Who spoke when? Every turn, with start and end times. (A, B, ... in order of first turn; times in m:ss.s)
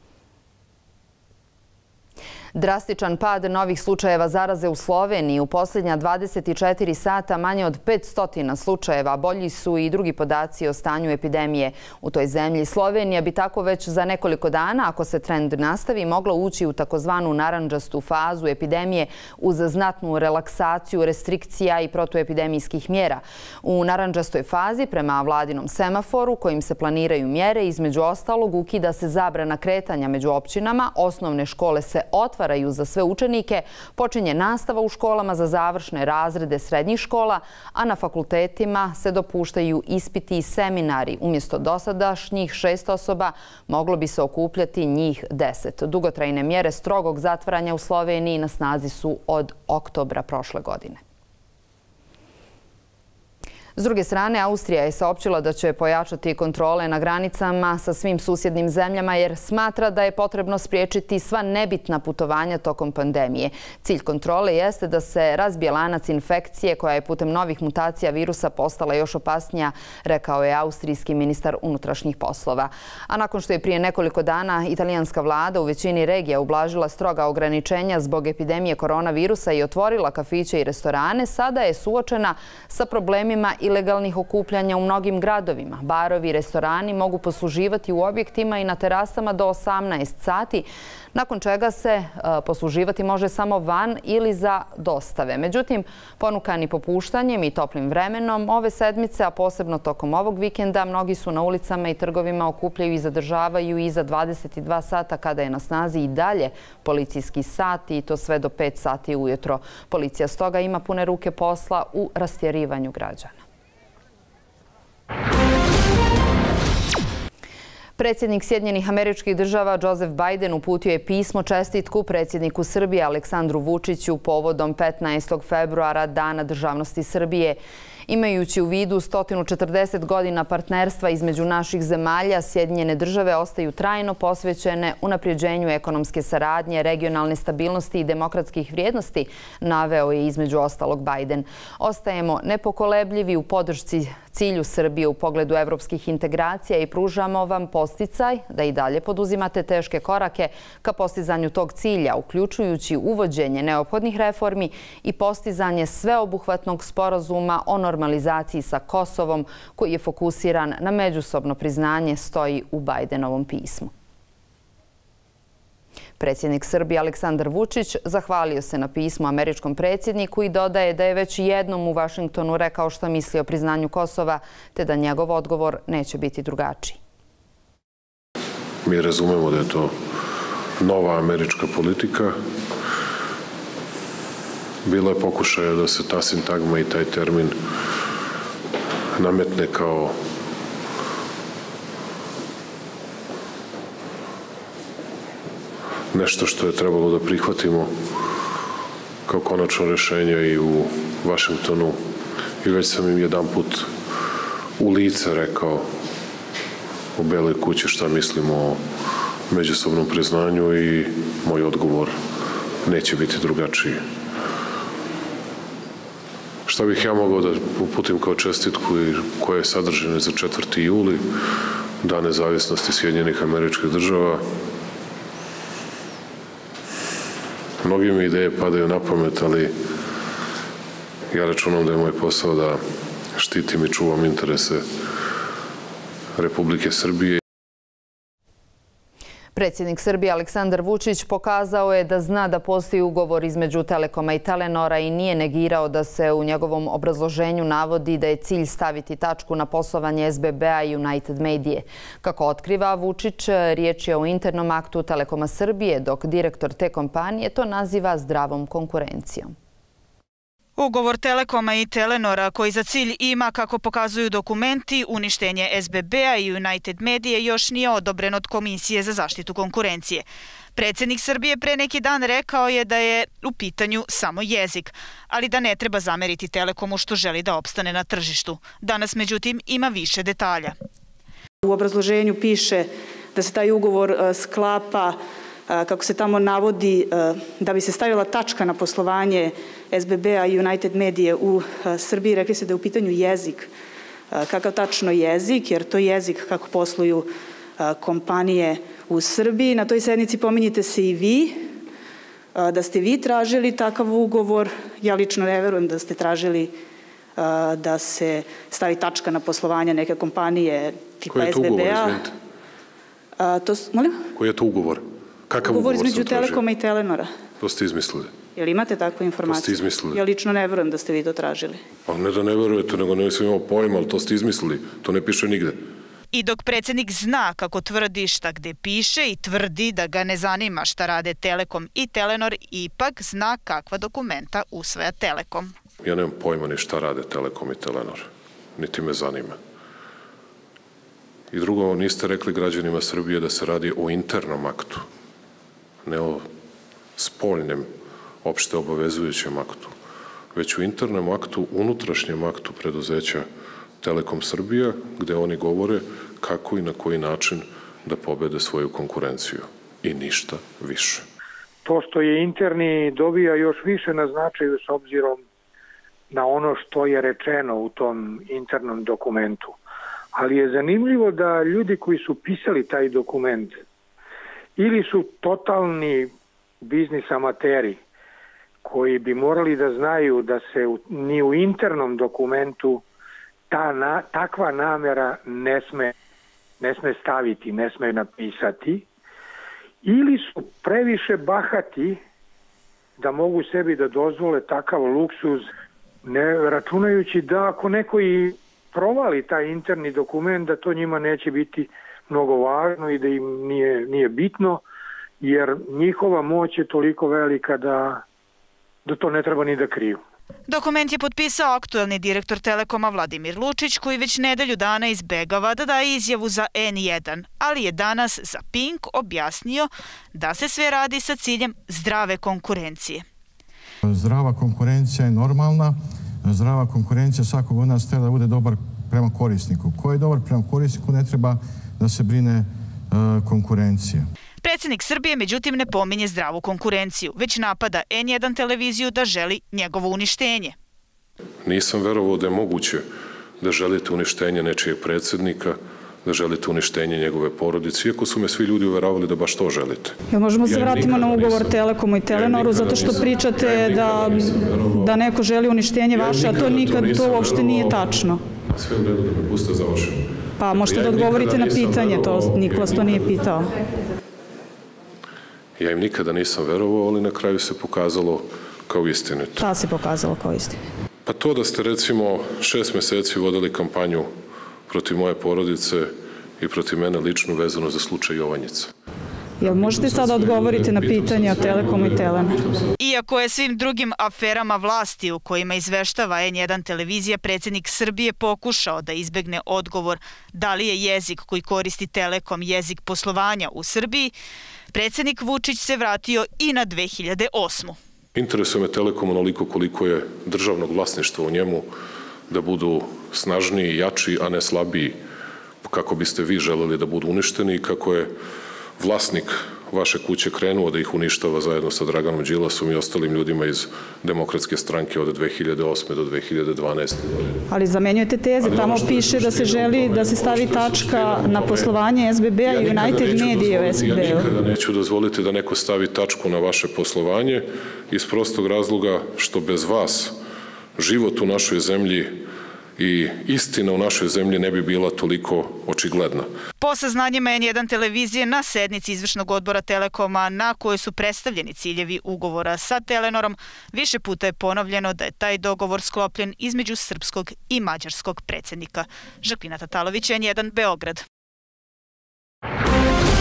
0:02.5-0:51.0 A
0:53.8-1:53.4 A
1:58.0-2:43.9 A
2:46.2-2:57.0 A
2:58.8-2:59.9 B
3:00.8-3:02.4 B
3:04.8-3:07.6 B
3:09.2-3:10.2 B
3:16.1-3:17.9 B
3:19.3-3:22.0 B
3:22.6-3:23.9 B
3:24.8-3:25.9 B
3:27.2-3:28.8 B
3:29.5-3:32.2 B
3:32.8-3:34.0 B
3:36.7-3:41.3 B
3:42.0-3:44.4 B
3:47.8-3:49.7 B
3:51.3-3:52.8 B
3:53.3-3:54.8 B
3:56.4-3:57.4 B
3:59.6-4:19.5 A
4:20.8-4:40.7 C
4:41.6-4:45.2 D
4:45.7-4:53.7 D
4:54.3-5:01.7 D
5:02.6-5:06.7 D
5:07.4-5:12.3 D
5:11.3-5:12.3 B
5:13.4-5:14.2 D
5:14.4-5:16.6 B
5:15.6-5:17.3 D
5:17.6-5:18.3 B
5:18.6-5:21.8 D
5:19.4-5:20.2 B
5:22.1-5:25.8 B
5:26.3-5:35.7 C
5:36.0-5:39.6 B
5:41.5-5:45.0 B
5:46.0-5:46.5 B
5:47.2-5:47.9 B
5:48.4-5:49.9 B
5:50.5-5:53.5 B
5:54.0-6:01.2 B
6:01.8-6:05.4 E
6:06.3-6:09.7 E
6:10.3-6:13.8 E
6:14.8-6:16.3 E
6:16.8-6:18.0 E
6:18.8-6:23.0 E
6:23.7-6:26.1 E
6:26.8-6:29.0 E
6:30.0-6:32.2 E
6:33.2-6:35.7 E
6:36.2-6:44.8 E
6:45.4-6:48.2 E
6:49.0-6:50.2 E
6:50.7-7:03.2 C
7:04.0-7:14.2 F
7:14.6-7:20.7 C
7:21.6-7:23.0 B
7:23.6-7:35.2 B
7:30.3-7:38.4 D
7:36.1-7:43.4 B
7:40.6-7:43.7 D
7:45.8-7:49.7 B
7:49.6-7:50.8 D
7:51.2-7:54.3 B
7:54.9-7:58.9 B
7:59.6-8:02.6 D
7:59.6-8:02.9 B
8:03.0-8:14.3 C
8:14.9-8:18.0 C
8:18.3-8:21.9 B
8:22.5-8:25.2 B
8:25.8-8:28.3 B
8:29.0-8:37.6 B
8:37.7-8:44.5 D
8:38.6-8:42.0 B
8:42.6-8:50.4 B
8:51.0-8:52.4 B
8:53.0-8:56.5 B
8:56.8-9:11.2 C